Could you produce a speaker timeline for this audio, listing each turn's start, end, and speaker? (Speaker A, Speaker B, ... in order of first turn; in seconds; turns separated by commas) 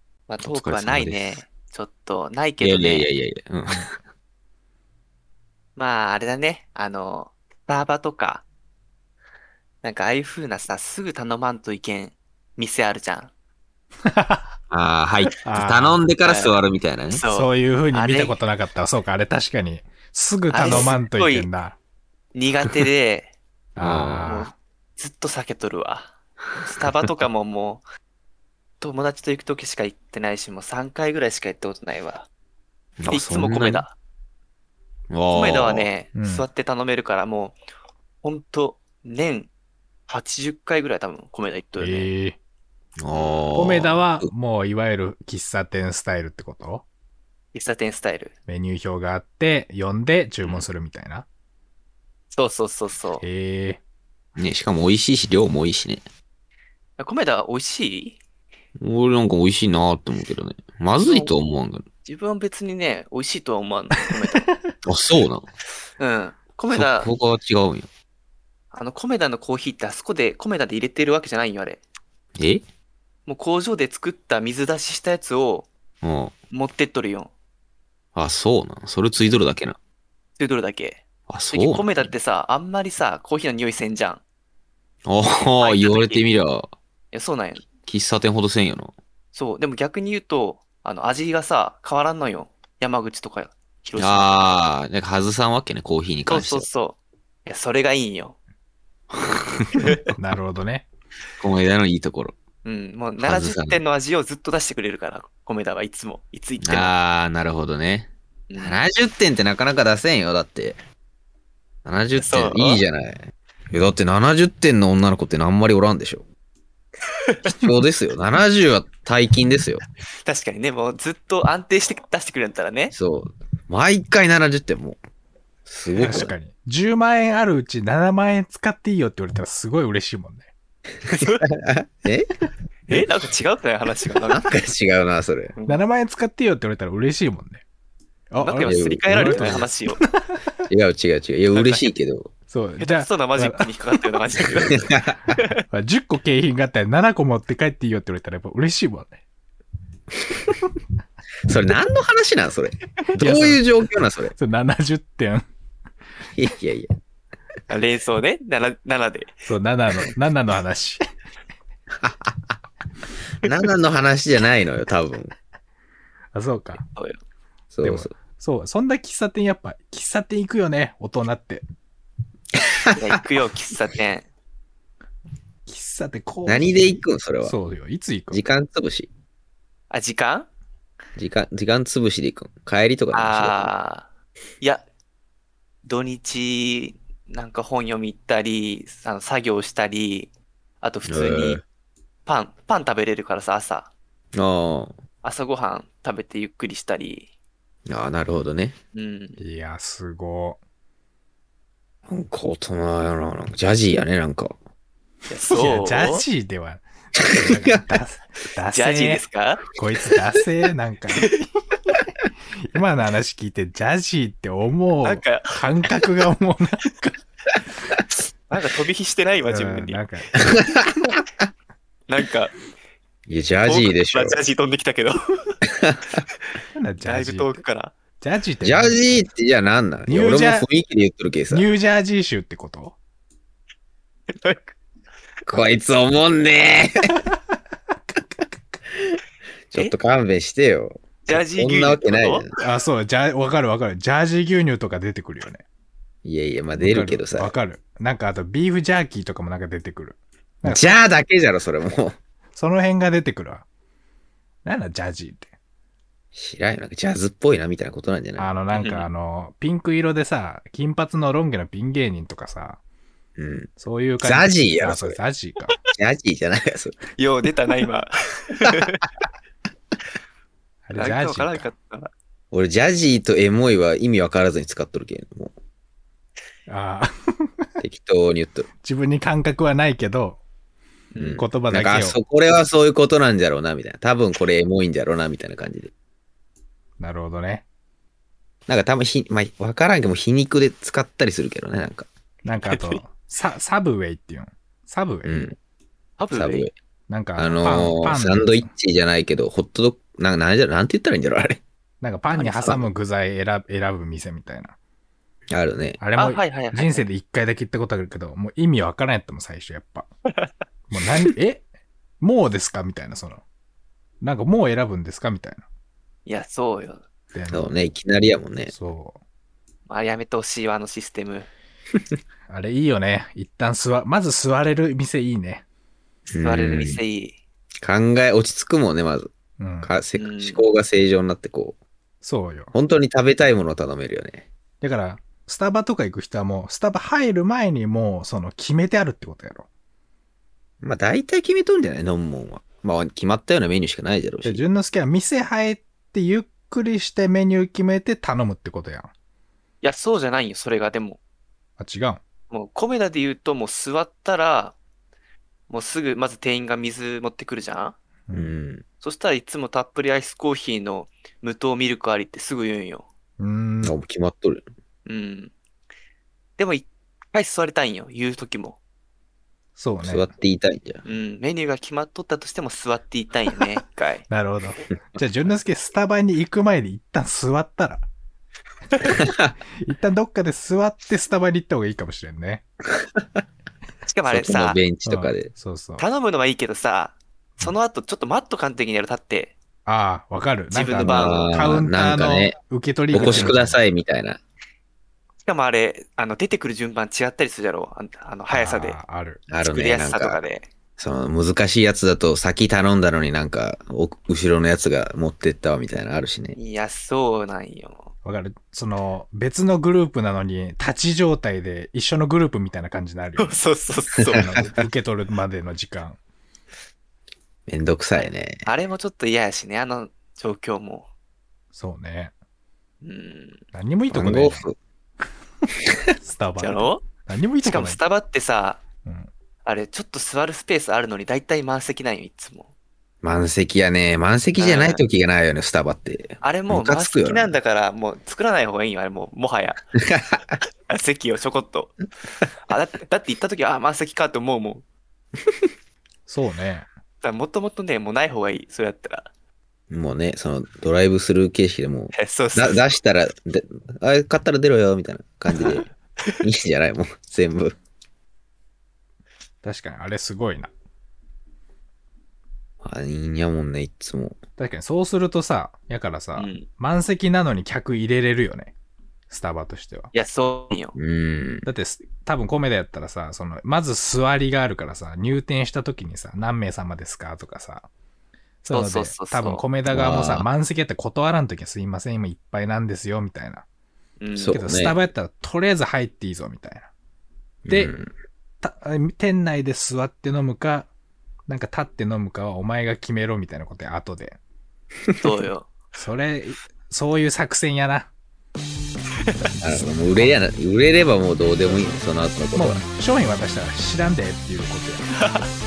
Speaker A: 0.3-3.1, Speaker B: 0.4-1.4, Speaker B: 2.6-3.9, Speaker A: 5.8-8.4, Speaker A: 9.8-13.3, Speaker C: 14.1-14.5, Speaker B: 14.7-17.2, Speaker C: 15.4-16.0, Speaker A: 16.2-16.6, Speaker A: 17.1-18.4, Speaker C: 17.3-21.8, Speaker A: 20.5-21.5, Speaker A: 22.3-23.3, Speaker C: 23.8-24.5, Speaker B: 23.8-24.4, Speaker A: 24.2-27.8, Speaker A: 28.8-32.3, Speaker B: 33.0-33.8, Speaker A: 33.1-33.9, Speaker B: 35.1-35.9, Speaker A: 35.3-37.6, Speaker C: 36.1-36.5, Speaker A: 38.2-39.5, Speaker A: 40.1-42.1, Speaker C: 41.8-42.4, Speaker B: 43.0-44.3, Speaker A: 43.1-43.5, Speaker C: 43.5-46.9, Speaker A: 47.5-48.3, Speaker C: 48.5-51.2, Speaker A: 52.3-53.2, Speaker C: 53.2-53.8, Speaker B: 54.4-56.0, Speaker A: 57.0-58.2, Speaker B: 58.8-61.8, Speaker A: 61.0-61.4, Speaker A: 62.0-64.5, Speaker C: 64.4-64.7, Speaker B: 64.8-65.5, Speaker A: 66.0-67.1, Speaker B: 66.7-67.9, Speaker A: 68.7-71.8, Speaker B: 72.4-72.6, Speaker A: 73.2-75.7, Speaker B: 76.0-76.3, Speaker A: 76.5-77.3, Speaker B: 78.1-79.8, Speaker A: 80.4-84.2, Speaker B: 81.3-82.1, Speaker B: 85.0-86.7, Speaker A: 85.6-86.2, Speaker A: 87.1-87.6, Speaker B: 87.8-88.9, Speaker A: 89.3-94.5, Speaker B: 94.0-96.7, Speaker A: 96.3-98.4, Speaker B: 99.1-100.0, Speaker A: 99.8-100.0, Speaker C: 100.2-100.8, Speaker B: 101.4-102.3, Speaker A: 102.6-106.9, Speaker B: 103.2-103.8, Speaker B: 106.6-110.8, Speaker A: 108.5-108.8, Speaker B: 111.8-116.2, Speaker A: 112.1-112.8, Speaker B: 117.4-119.8, Speaker A: 120.2-122.9, Speaker B: 122.9-125.0, Speaker B: 125.7-126.3, Speaker C: 126.0-130.5, Speaker A: 131.1-131.4, Speaker B: 131.2-132.4, Speaker A: 132.9-134.4, Speaker B: 134.3-135.5, Speaker C: 135.7-137.6, Speaker C: 138.3-140.4, Speaker A: 138.4-140.0, Speaker B: 138.6-139.7, Speaker B: 140.7-142.3, Speaker A: 141.5-141.9, Speaker C: 142.5-143.7, Speaker A: 142.8-144.8, Speaker B: 144.7-145.3, Speaker C: 145.7-149.2, Speaker B: 151.5-154.3, Speaker C: 153.1-153.6, Speaker C: 154.3-155.4, Speaker B: 156.3-156.9, Speaker A: 157.7-159.3, Speaker C: 159.4-161.0, Speaker B: 162.0-162.3, Speaker B: 163.4-165.3, Speaker C: 166.3-166.8, Speaker A: 166.7-167.2, Speaker B: 167.7-168.1, Speaker C: 167.8-171.6, Speaker A: 172.9-174.3, Speaker C: 175.7-178.4, Speaker B: 176.4-177.6, Speaker B: 178.3-179.1, Speaker A: 179.9-180.5, Speaker B: 181.2-183.7, Speaker A: 183.1-184.1, Speaker A: 185.8-191.6, Speaker B: 191.1-191.6, Speaker A: 192.2-193.9, Speaker B: 194.3-194.9, Speaker A: 195.2-197.3, Speaker B: 197.9-198.8, Speaker A: 198.9-199.4, Speaker C: 199.4-200.6, Speaker B: 202.1-204.5, Speaker A: 205.3-206.2, Speaker C: 205.5-209.2, Speaker B: 207.2-207.7, Speaker A: 208.7-209.6, Speaker C: 209.7-211.3, Speaker C: 212.6-217.1, Speaker A: 215.0-215.6, Speaker A: 218.5-220.0, Speaker C: 219.5-220.4, Speaker B: 220.5-220.9, Speaker A: 222.1-222.5, Speaker B: 223.3-224.4, Speaker A: 223.6-225.2, Speaker B: 225.8-226.2, Speaker C: 226.8-227.6, Speaker A: 227.0-227.9, Speaker C: 228.2-229.0, Speaker B: 228.6-231.7, Speaker C: 230.1-230.7, Speaker C: 231.5-232.9, Speaker A: 234.3-234.7, Speaker B: 235.5-237.2, Speaker B: 239.0-242.5, Speaker A: 241.2-242.4, Speaker C: 242.6-245.6, Speaker B: 246.2-247.5, Speaker C: 246.8-251.0, Speaker B: 250.6-252.2, Speaker C: 252.5-253.7, Speaker C: 254.6-255.5, Speaker B: 256.3-258.5, Speaker C: 258.4-262.8, Speaker A: 258.7-259.1, Speaker B: 263.4-263.7, Speaker C: 263.8-265.7, Speaker B: 264.2-265.2, Speaker B: 265.9-266.9, Speaker A: 267.2-269.0, Speaker C: 270.9-271.7, Speaker A: 270.9-272.1, Speaker B: 272.5-275.5, Speaker C: 276.7-277.6, Speaker B: 277.8-278.7, Speaker C: 278.8-280.4, Speaker A: 281.1-281.4, Speaker B: 281.2-285.9, Speaker C: 281.4-282.2, Speaker C: 287.0-287.6, Speaker B: 288.7-292.1, Speaker C: 292.4-295.3, Speaker B: 292.7-293.0, Speaker B: 295.2-295.6, Speaker A: 296.2-296.7, Speaker B: 296.3-296.7, Speaker C: 297.1-298.7, Speaker B: 297.4-301.6, Speaker C: 302.0-304.7, Speaker A: 302.3-302.8, Speaker B: 305.5-306.0, Speaker C: 306.0-310.1, Speaker A: 306.1-307.1, Speaker C: 310.9-311.6, Speaker C: 312.2-313.4, Speaker C: 314.2-315.6, Speaker A: 316.2-317.0, Speaker C: 317.3-317.8, Speaker B: 317.5-318.7, Speaker C: 318.7-319.2, Speaker A: 319.9-321.5, Speaker C: 322.5-325.6, Speaker B: 326.3-327.0, Speaker A: 326.4-327.4, Speaker B: 327.8-329.3, Speaker C: 329.6-329.9, Speaker B: 329.8-331.8, Speaker A: 330.1-330.6, Speaker C: 332.2-332.7, Speaker B: 332.7-334.5, Speaker C: 334.8-339.7, Speaker B: 340.8-344.6, Speaker C: 344.4-349.1, Speaker A: 349.8-351.2, Speaker C: 351.8-352.2, Speaker A: 352.5-354.8, Speaker A: 355.7-358.0, Speaker C: 358.3-358.5, Speaker B: 358.3-358.8, Speaker A: 359.0-363.0, Speaker C: 363.4-364.0, Speaker B: 363.8-364.6, Speaker A: 365.1-365.5, Speaker A: 366.6-368.8, Speaker C: 369.8-370.3, Speaker B: 370.0-371.0, Speaker A: 371.0-374.3, Speaker C: 374.3-378.1, Speaker B: 379.2-379.5, Speaker C: 379.8-382.6, Speaker A: 384.1-384.8, Speaker B: 384.3-385.5, Speaker C: 385.0-386.0, Speaker A: 386.0-389.5, Speaker C: 389.9-393.8, Speaker A: 390.7-391.5, Speaker B: 390.9-392.6, Speaker A: 393.1-393.5, Speaker B: 393.1-394.4, Speaker A: 395.4-399.0, Speaker C: 398.5-399.5, Speaker B: 399.5-400.4, Speaker A: 399.6-400.7, Speaker B: 401.0-406.6, Speaker A: 406.5-408.1, Speaker C: 408.2-413.6, Speaker A: 413.4-414.6, Speaker C: 414.3-416.2, Speaker B: 417.7-418.6, Speaker A: 418.1-421.1, Speaker C: 421.7-422.3, Speaker A: 423.0-423.6, Speaker C: 423.7-424.6, Speaker B: 424.1-424.8, Speaker C: 426.2-428.0, Speaker A: 426.6-427.0, Speaker A: 427.6-428.8, Speaker C: 429.0-429.3, Speaker A: 429.6-432.7, Speaker B: 433.2-437.5, Speaker A: 434.6-435.0, Speaker A: 436.4-439.8, Speaker B: 440.1-440.5, Speaker A: 440.9-442.0, Speaker A: 442.7-444.8, Speaker C: 446.3-446.9, Speaker A: 447.2-449.3, Speaker B: 449.9-455.9, Speaker A: 452.1-452.9, Speaker A: 455.6-455.9, Speaker B: 456.4-457.7, Speaker C: 459.6-460.7, Speaker B: 462.8-464.4, Speaker C: 464.6-468.7, Speaker A: 466.4-466.7, Speaker C: 469.3-470.1, Speaker A: 470.1-470.9, Speaker B: 470.9-471.7, Speaker C: 471.6-477.9, Speaker C: 478.6-483.6, Speaker A: 478.7-479.7, Speaker B: 479.9-480.5, Speaker A: 484.2-484.6, Speaker B: 484.3-485.0, Speaker C: 484.5-486.9, Speaker C: 487.6-487.9, Speaker B: 487.7-488.1, Speaker C: 488.6-490.9, Speaker C: 491.5-494.4, Speaker A: 495.2-495.7, Speaker C: 495.9-498.1, Speaker C: 499.4-500.4, Speaker B: 499.6-502.8, Speaker C: 502.5-505.1, Speaker A: 505.2-505.5